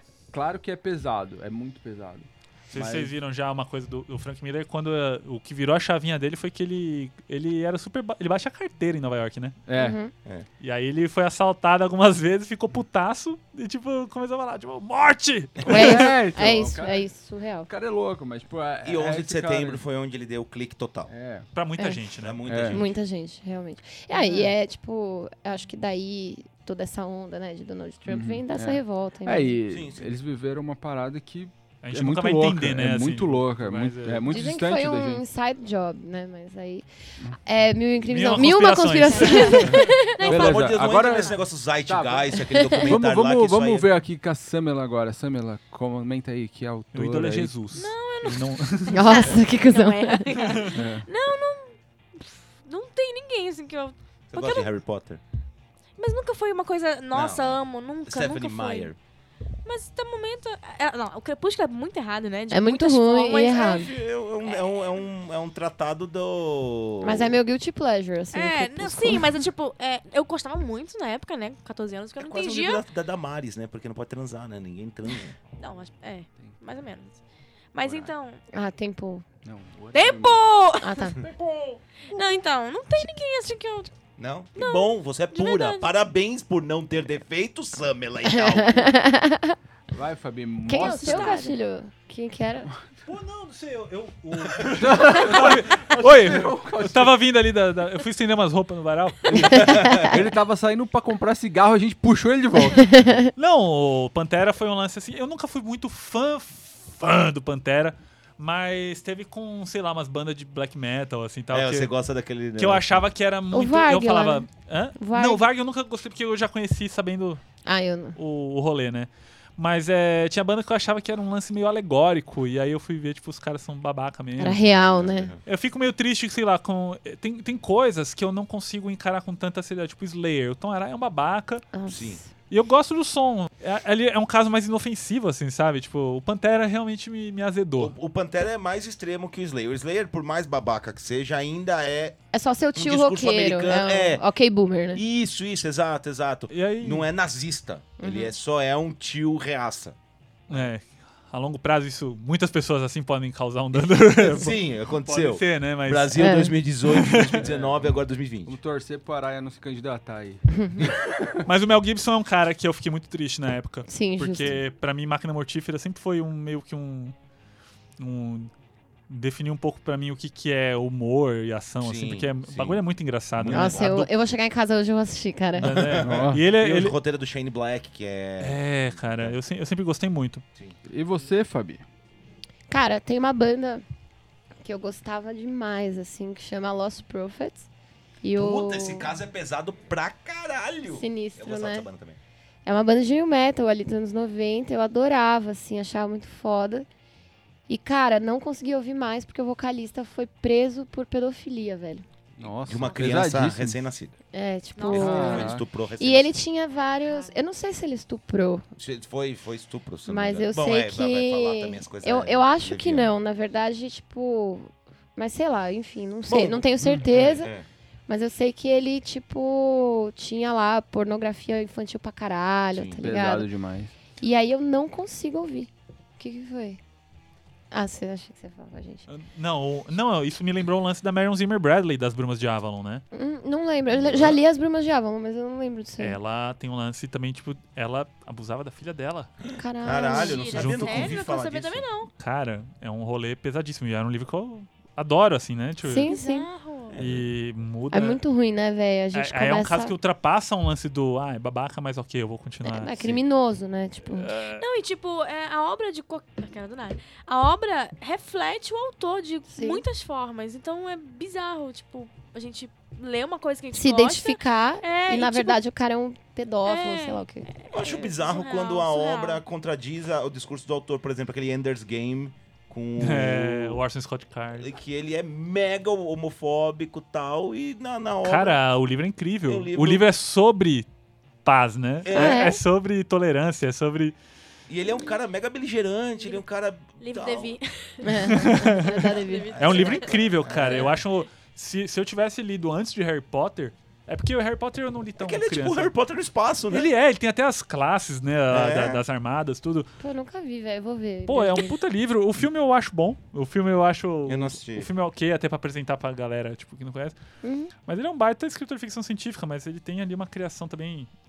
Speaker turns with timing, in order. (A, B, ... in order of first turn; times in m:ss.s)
0:00.3-0:03.1 A
0:02.7-0:09.6 B
0:09.7-0:10.0 A
0:09.8-0:10.1 C
0:10.6-0:16.1 B
0:15.6-0:17.0 A
0:15.7-0:17.7 C
0:17.7-0:19.8 A
0:18.8-0:21.1 D
0:21.1-0:21.5 A
0:21.5-0:22.4 B
0:22.2-0:23.0 D
0:22.4-0:22.8 A
0:22.7-0:29.6 C
0:28.1-0:35.2 A
0:29.7-0:30.2 D
0:31.8-0:34.3 B
0:34.2-0:36.9 C
0:37.4-0:40.2 C
0:38.0-0:39.9 B
0:39.1-0:41.4 E
0:40.2-0:43.9 D
0:40.2-0:47.6 A
0:42.4-0:42.9 C
0:46.9-0:49.2 B
0:47.7-0:54.7 E
0:48.9-0:50.6 C
0:50.4-0:50.8 B
0:50.7-0:51.0 A
0:54.3-0:55.2 D
0:56.0-0:58.9 E
0:57.1-0:59.0 D
0:59.6-1:04.8 E
1:02.5-1:03.9 C
1:03.4-1:07.3 D
1:07.0-1:09.4 C
1:08.3-1:12.8 E
1:12.2-1:15.4 D
1:15.6-1:17.2 E
1:17.7-1:18.4 E
1:17.8-1:18.1 D
1:18.5-1:19.2 C
1:19.4-1:20.5 A
1:19.9-1:21.1 E
1:20.8-1:21.2 C
1:21.1-1:22.3 A
1:22.1-1:23.9 E
1:24.2-1:28.9 D
1:24.6-1:25.9 E
1:28.3-1:29.6 C
1:29.9-1:31.4 A
1:30.7-1:32.7 C
1:30.7-1:31.6 E
1:33.1-1:39.8 B
1:34.8-1:37.2 A
1:39.3-1:43.1 A
1:39.4-1:40.2 D
1:39.5-1:40.1 C
1:42.8-1:43.3 C
1:43.4-1:51.9 B
1:51.5-1:52.9 D
1:52.6-1:57.4 B
1:53.5-1:54.4 C
1:55.0-1:55.4 C
1:57.6-1:58.2 C
1:58.2-2:04.6 B
2:04.4-2:05.3 C
2:04.6-2:05.4 D
2:05.4-2:11.7 B
2:11.7-2:12.3 C
2:11.9-2:12.2 D
2:12.5-2:17.9 B
2:17.8-2:22.2 D
2:22.3-2:25.0 C
2:22.7-2:24.2 D
2:24.9-2:30.0 D
2:26.5-2:27.1 B
2:28.0-2:28.3 C
2:30.5-2:37.4 B
2:33.7-2:38.6 D
2:36.2-2:36.5 C
2:37.3-2:41.4 A
2:40.5-2:40.9 C
2:41.4-2:47.1 B
2:43.9-2:44.6 C
2:48.0-2:48.5 B
2:49.1-2:54.1 B
2:51.8-2:52.8 D
2:53.4-2:54.0 D
2:53.5-2:55.7 C
2:55.6-2:57.0 B
2:55.6-2:59.4 D
2:55.9-2:56.4 A
2:58.4-3:00.4 B
3:00.9-3:01.8 A
3:02.7-3:03.8 C
3:04.6-3:07.7 C
3:08.2-3:09.1 C
3:08.4-3:12.2 D
3:10.9-3:11.9 C
3:12.6-3:16.9 C
3:17.7-3:22.0 C
3:22.4-3:23.8 A
3:22.4-3:24.1 D
3:24.3-3:28.6 C
3:24.8-3:25.5 E
3:24.9-3:26.3 D
3:25.0-3:25.6 A
3:28.8-3:33.1 D
3:30.0-3:37.5 C
3:36.3-3:37.6 D
3:38.1-3:43.5 C
3:42.7-3:43.0 D
3:43.0-3:43.9 A
3:44.2-3:46.8 C
3:47.7-3:49.0 C
3:49.1-3:53.0 B
3:53.1-3:56.2 C
3:53.9-3:54.4 D
3:56.0-3:59.3 B
3:59.5-4:00.5 C
3:59.8-4:01.8 D
3:59.9-4:02.1 E
4:00.5-4:01.1 B
4:02.2-4:06.2 B
4:05.8-4:06.5 C
4:06.0-4:07.0 E
4:06.9-4:07.2 D
4:07.0-4:08.2 B
4:07.9-4:09.9 C
4:09.1-4:13.1 B
4:12.6-4:14.3 C
4:14.1-4:14.6 B
4:14.6-4:25.6 E
4:19.5-4:19.8 C
4:23.7-4:27.5 C
4:26.6-4:29.4 E
4:27.7-4:33.8 D
4:33.0-4:34.7 B
4:34.5-4:38.6 D
4:38.2-4:40.9 B
4:39.5-4:40.1 D
4:41.4-4:44.2 B
4:42.0-4:42.5 D
4:42.1-4:42.6 C
4:44.7-4:47.6 D
4:47.0-4:50.1 E
4:48.0-4:49.5 C
4:48.3-4:55.9 B
4:49.5-4:51.0 D
4:55.2-4:56.9 D
4:56.7-4:59.9 B
4:58.5-4:59.0 D
5:00.0-5:01.8 C
5:01.3-5:07.2 B
5:04.3-5:04.9 D
5:07.4-5:07.7 C
5:07.8-5:11.1 B